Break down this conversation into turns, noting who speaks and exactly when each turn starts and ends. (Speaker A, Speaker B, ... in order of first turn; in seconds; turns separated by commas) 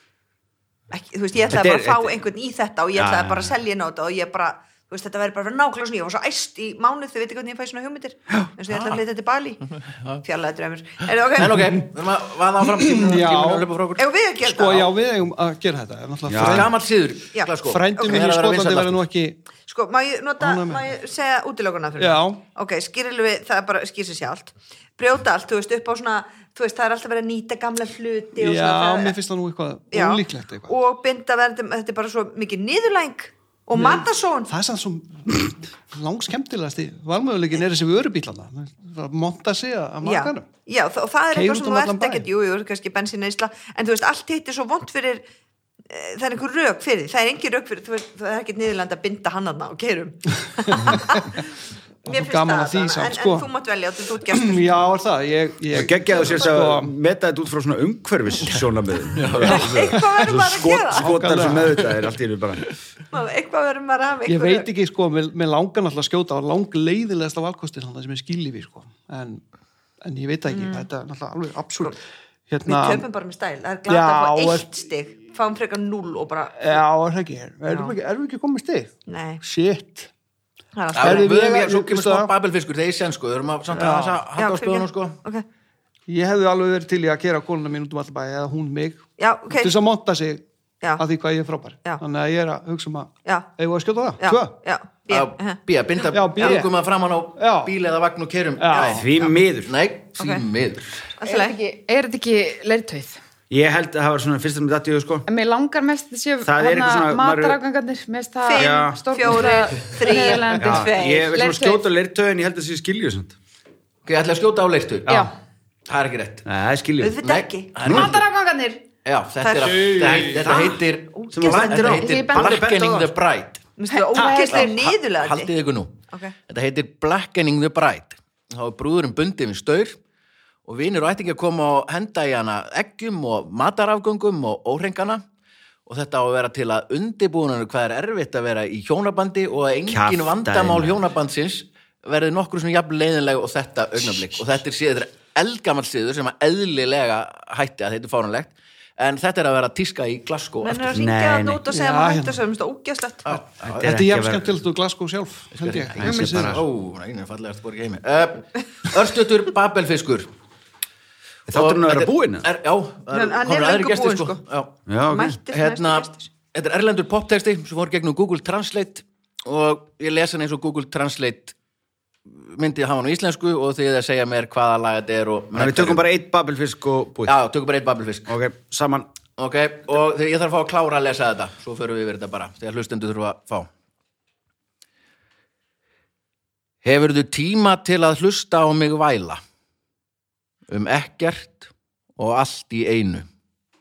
Speaker A: 0.9-9.6, Speaker B: 1.5-2.2, Speaker B: 3.0-3.5, Speaker C: 9.8-10.2, Speaker A: 10.2-11.8, Speaker C: 11.3-14.1, Speaker D: 12.8-13.7, Speaker A: 14.0-14.9, Speaker D: 14.4-16.7, Speaker B: 16.3-16.7, Speaker C: 16.4-19.0, Speaker A: 17.3-18.3, Speaker D: 17.6-19.4, Speaker A: 19.6-29.2, Speaker D: 20.4-20.8, Speaker D: 22.0-22.4, Speaker D: 28.4-30.8, Speaker A: 29.9-34.5, Speaker D: 33.8-40.5, Speaker A: 40.0-45.3, Speaker D: 41.3-42.2, Speaker A: 45.9-51.5, Speaker D: 50.7-51.2, Speaker A: 52.0-54.7, Speaker D: 52.1-53.5, Speaker D: 54.3-56.9, Speaker B: 55.7-62.8, Speaker C: 59.2-59.7, Speaker A: 59.4-61.1, Speaker D: 61.0-62.0, Speaker A: 63.1-64.7, Speaker D: 64.3-69.4, Speaker D: 70.0-73.1, Speaker A: 70.5-70.9, Speaker A: 72.7-76.8, Speaker D: 73.9-74.7, Speaker D: 76.6-80.1, Speaker A: 77.7-78.0, Speaker A: 79.1-79.4, Speaker A: 80.8-81.3, Speaker D: 80.9-82.3, Speaker C: 81.0-85.2, Speaker D: 83.7-84.2, Speaker A: 84.4-85.5, Speaker D: 86.1-90.4, Speaker A: 89.2-89.7, Speaker D: 91.0-94.5, Speaker A: 94.2-96.6, Speaker C: 95.1-101.1, Speaker D: 96.1-96.7, Speaker D: 97.4-97.7, Speaker D: 98.6-99.0, Speaker B: 98.8-99.7, Speaker A: 100.2-100.5, Speaker A: 101.2-101.6, Speaker E: 101.2-103.2, Speaker B: 103.5-105.3, Speaker E: 105.3-111.9, Speaker B: 106.5-107.6, Speaker A: 108.4-111.3, Speaker B: 108.5-109.3, Speaker B: 110.5-113.4, Speaker C: 114.0-115.2, Speaker E: 115.1-115.3, Speaker C: 115.9-116.5, Speaker B: 116.5-117.2, Speaker A: 117.0-117.9, Speaker C: 117.2-118.2, Speaker B: 117.8-118.2, Speaker E: 117.9-118.8, Speaker C: 119.0-123.6, Speaker A: 119.4-120.4, Speaker B: 119.6-123.1, Speaker A: 121.2-122.0, Speaker E: 122.0-122.6, Speaker A: 123.8-125.5, Speaker E: 123.9-124.7, Speaker C: 124.2-130.0, Speaker C: 130.7-135.2, Speaker C: 135.9-151.0, Speaker B: 139.9-141.0, Speaker A: 150.6-153.4, Speaker B: 150.9-151.6, Speaker D: 151.7-152.4, Speaker C: 153.2-154.0, Speaker B: 153.6-154.5, Speaker D: 153.8-156.7, Speaker C: 155.6-160.3, Speaker B: 155.9-156.7, Speaker B: 161.5-162.5, Speaker C: 161.5-164.7, Speaker A: 163.1-164.4, Speaker B: 164.9-165.4, Speaker A: 165.1-166.3, Speaker C: 165.5-171.6, Speaker C: 172.3-176.0, Speaker B: 175.5-177.4, Speaker C: 177.2-178.3, Speaker B: 178.3-179.1, Speaker C: 179.4-183.7, Speaker C: 186.8-189.4, Speaker C: 190.7-193.3